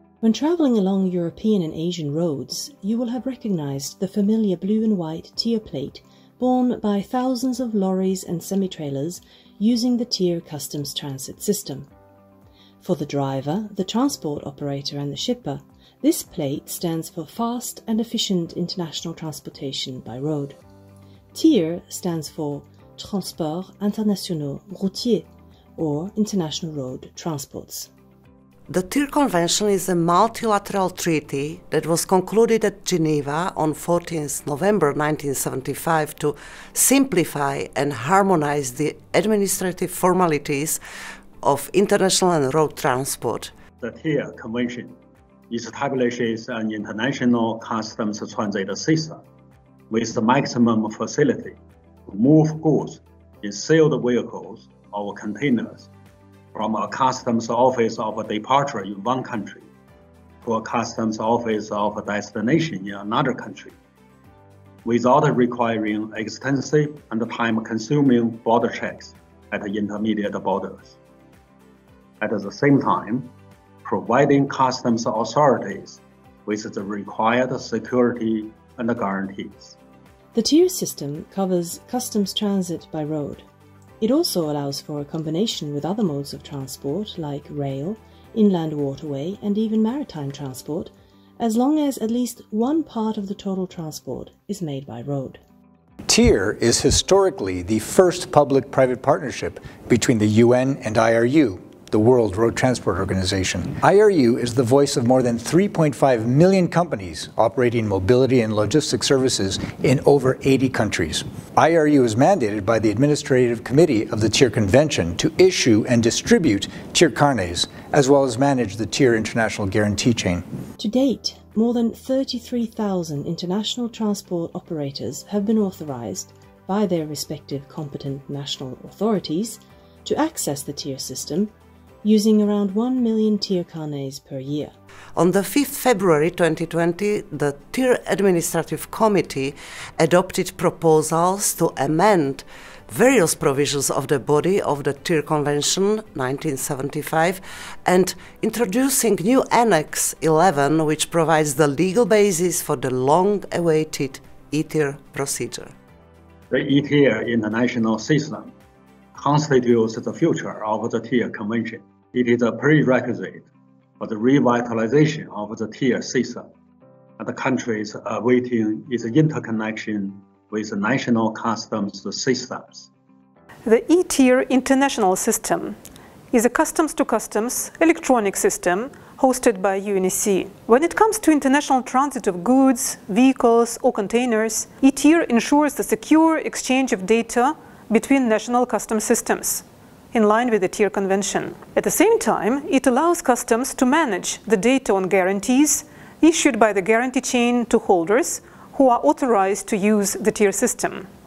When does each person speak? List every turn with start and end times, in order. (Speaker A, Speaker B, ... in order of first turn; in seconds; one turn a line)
Speaker A: 0.2-11.9
Speaker A: 12.8-20.6
Speaker A: 21.3-27.9
Speaker B: 28.7-40.8
Speaker B: 41.4-43.5
Speaker C: 43.8-45.0
Speaker C: 45.5-49.2
Speaker C: 49.9-55.9
Speaker C: 56.5-59.7
Speaker C: 60.4-63.8
Speaker C: 64.8-71.0
Speaker C: 72.2-73.3
Speaker C: 73.8-79.8
Speaker A: 80.3-83.5
Speaker A: 84.0-95.4
Speaker D: 96.1-120.5
Speaker A: 120.8-131.5
Speaker A: 132.0-134.7
Speaker B: 135.2-155.7
Speaker C: 156.5-158.5
Speaker C: 159.2-163.5
Speaker C: 164.0-166.5
Speaker C: 167.2-172.9
Speaker E: 173.7-175.8
Speaker E: 176.3-201.1